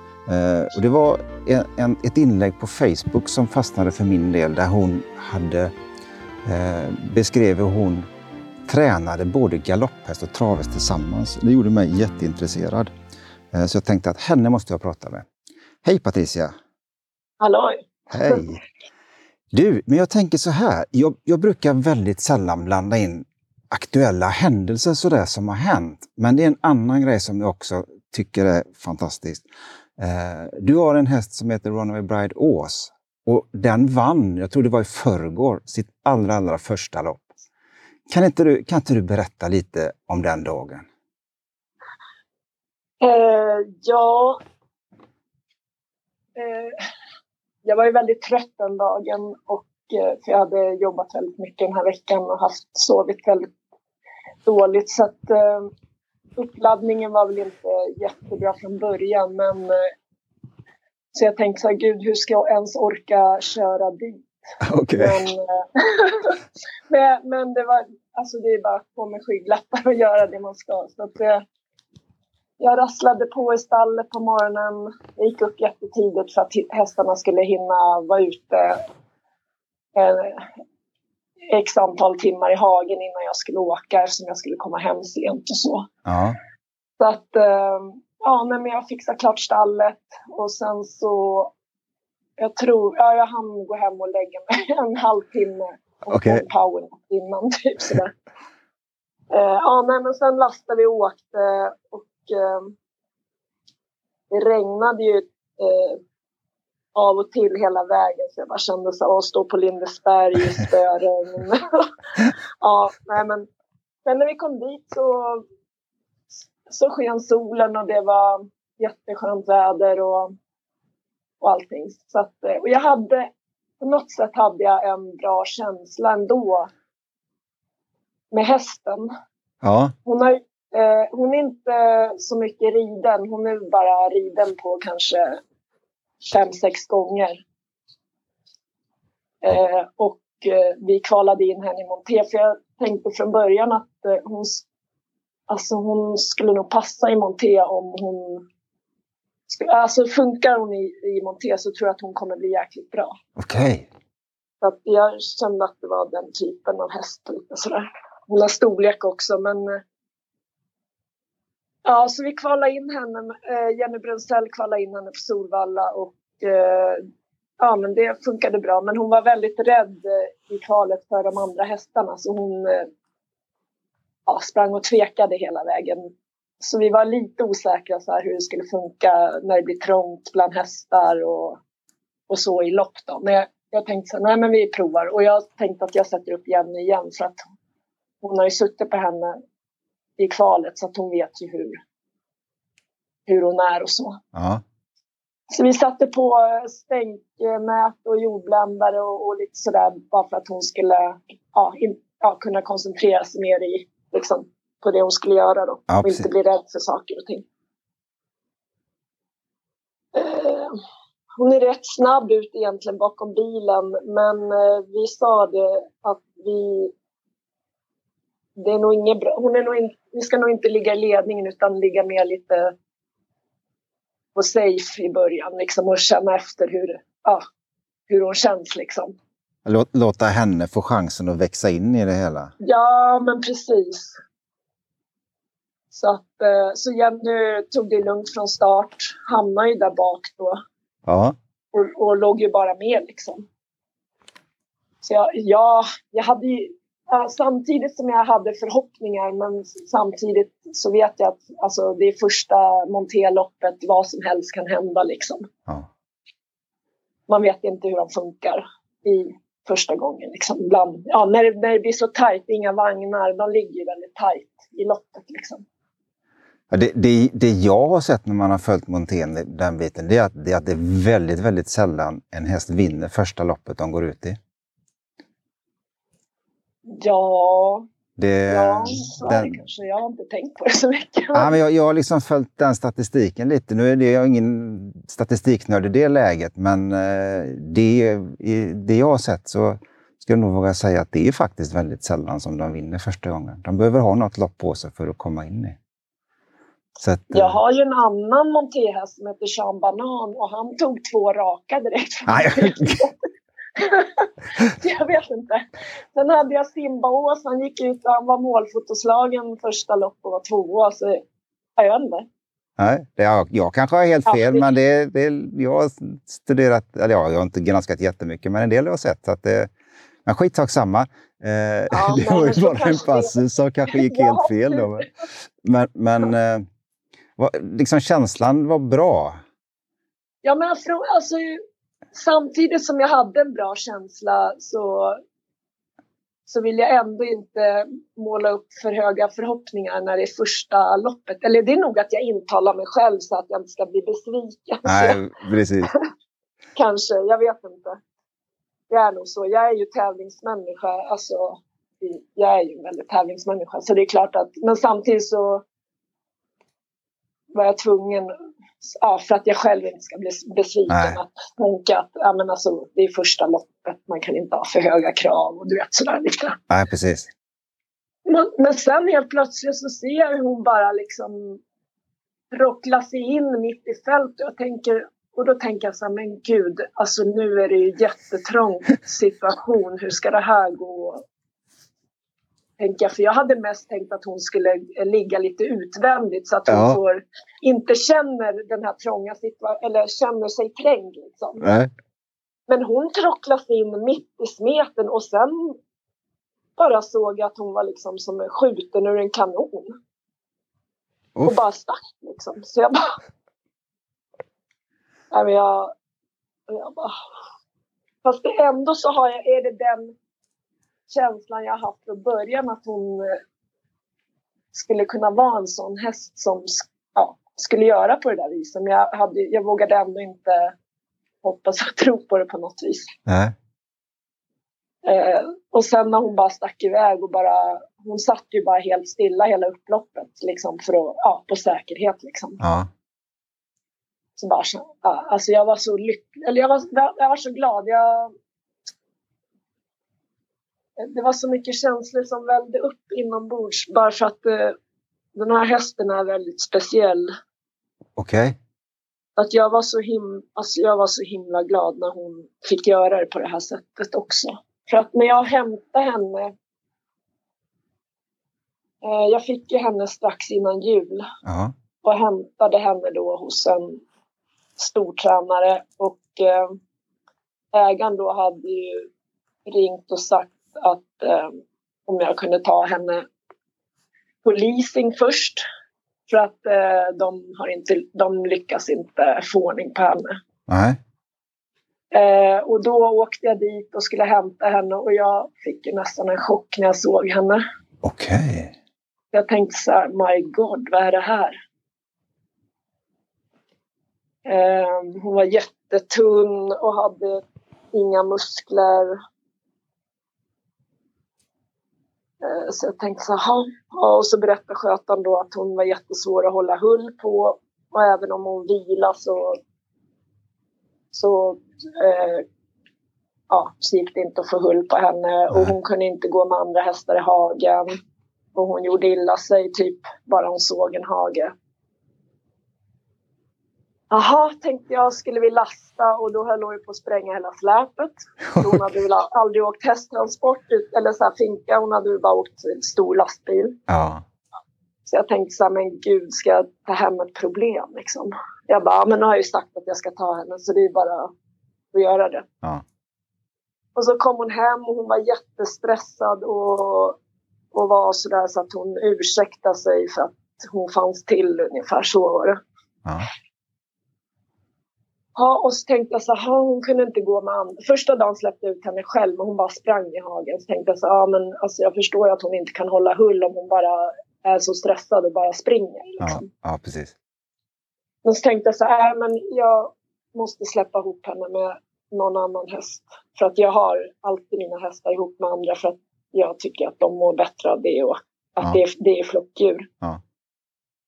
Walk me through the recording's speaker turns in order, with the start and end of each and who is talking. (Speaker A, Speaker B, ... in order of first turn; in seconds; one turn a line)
Speaker A: 0.2-5.7
Speaker A: 6.4-8.0
Speaker A: 8.7-12.9
Speaker A: 13.5-15.3
Speaker A: 15.8-16.5
Speaker B: 17.4-18.4
Speaker A: 18.1-18.6
Speaker A: 19.5-29.5
Speaker A: 30.0-37.3
Speaker A: 38.1-40.9
Speaker B: 43.0-44.4
Speaker B: 46.4-46.8
Speaker B: 47.6-53.5
Speaker B: 54.4-55.7
Speaker B: 56.4-59.9
Speaker B: 61.1-64.3
Speaker A: 64.6-65.2
Speaker B: 65.0-71.4
Speaker B: 72.6-78.8
Speaker B: 79.9-80.5
Speaker B: 81.5-85.9
Speaker A: 86.0-86.4
Speaker B: 87.0-91.5
Speaker B: 92.4-98.1
Speaker A: 96.1-96.4
Speaker B: 99.3-102.7
Speaker B: 104.3-106.0
Speaker B: 106.9-113.5
Speaker B: 114.0-115.4
Speaker B: 116.6-120.3
Speaker B: 121.4-123.3
Speaker B: 123.8-126.7
Speaker B: 128.3-129.1
Speaker A: 129.6-129.9
Speaker B: 130.0-135.4
Speaker B: 136.2-137.4
Speaker B: 139.4-144.6
Speaker B: 145.5-148.4
Speaker B: 149.5-153.2
Speaker A: 153.4-153.9
Speaker B: 154.6-159.8
Speaker B: 161.8-167.1
Speaker B: 167.6-172.9
Speaker B: 174.3-181.6
Speaker B: 182.3-187.5
Speaker B: 188.2-189.4
Speaker B: 190.2-191.8
Speaker B: 193.3-194.2
Speaker A: 194.3-194.6
Speaker B: 195.5-207.4
Speaker A: 205.9-206.3
Speaker B: 210.1-210.7
Speaker B: 211.4-216.9
Speaker B: 218.6-222.7
Speaker B: 224.3-227.4
Speaker B: 228.1-229.1
Speaker A: 229.6-232.5
Speaker B: 232.6-234.2
Speaker B: 235.9-240.6
Speaker A: 241.1-241.3
Speaker B: 241.7-243.4
Speaker B: 245.0-255.5
Speaker B: 257.3-265.6
Speaker A: 266.7-274.4
Speaker B: 276.9-277.9
Speaker A: 278.2-279.6
Speaker B: 278.5-281.6
Speaker A: 281.3-295.8
Speaker A: 297.0-297.6
Speaker B: 297.3-303.2
Speaker A: 302.3-303.1
Speaker B: 303.8-311.2
Speaker B: 311.8-312.3
Speaker A: 312.8-319.7
Speaker B: 314.2-314.7
Speaker A: 320.2-325.1
Speaker B: 321.9-323.4
Speaker B: 323.9-325.1
Speaker A: 325.6-326.6
Speaker A: 327.4-329.4
Speaker B: 330.4-331.6
Speaker B: 332.1-335.2
Speaker B: 336.5-345.2
Speaker A: 344.8-345.9
Speaker B: 346.8-348.0
Speaker B: 348.9-355.6
Speaker B: 357.5-366.6
Speaker A: 360.9-361.2
Speaker A: 366.7-367.3
Speaker B: 368.2-371.6
Speaker B: 372.5-381.2
Speaker B: 382.8-391.6
Speaker A: 386.7-387.0
Speaker A: 391.6-391.9
Speaker B: 392.7-395.8
Speaker B: 396.8-400.0
Speaker B: 401.4-403.1
Speaker B: 405.3-405.9
Speaker B: 406.7-407.1
Speaker B: 408.2-410.1
Speaker B: 411.1-413.4
Speaker B: 414.7-420.7
Speaker B: 421.4-423.1
Speaker A: 423.3-423.5
Speaker B: 425.0-432.6
Speaker A: 432.6-432.9
Speaker B: 434.4-438.3
Speaker B: 441.0-444.8
Speaker B: 445.4-447.3
Speaker A: 448.2-448.6
Speaker B: 449.4-456.5
Speaker B: 459.0-461.3
Speaker A: 461.4-461.7
Speaker B: 462.0-464.0
Speaker B: 464.8-466.8
Speaker B: 467.7-469.1
Speaker B: 469.6-473.2
Speaker B: 474.4-475.6
Speaker B: 476.3-480.4
Speaker A: 480.7-481.0
Speaker B: 482.1-487.6
Speaker A: 488.0-488.7
Speaker B: 489.3-491.6
Speaker B: 494.4-499.2
Speaker B: 502.4-509.6
Speaker B: 511.1-512.4
Speaker B: 513.5-517.9
Speaker B: 518.5-521.5
Speaker B: 524.1-533.8
Speaker A: 528.5-528.9
Speaker A: 533.9-534.2
Speaker B: 535.0-541.3
Speaker B: 541.9-542.5
Speaker B: 543.9-547.2
Speaker B: 547.7-552.6
Speaker B: 555.4-566.5
Speaker A: 566.2-567.1
Speaker B: 568.2-579.9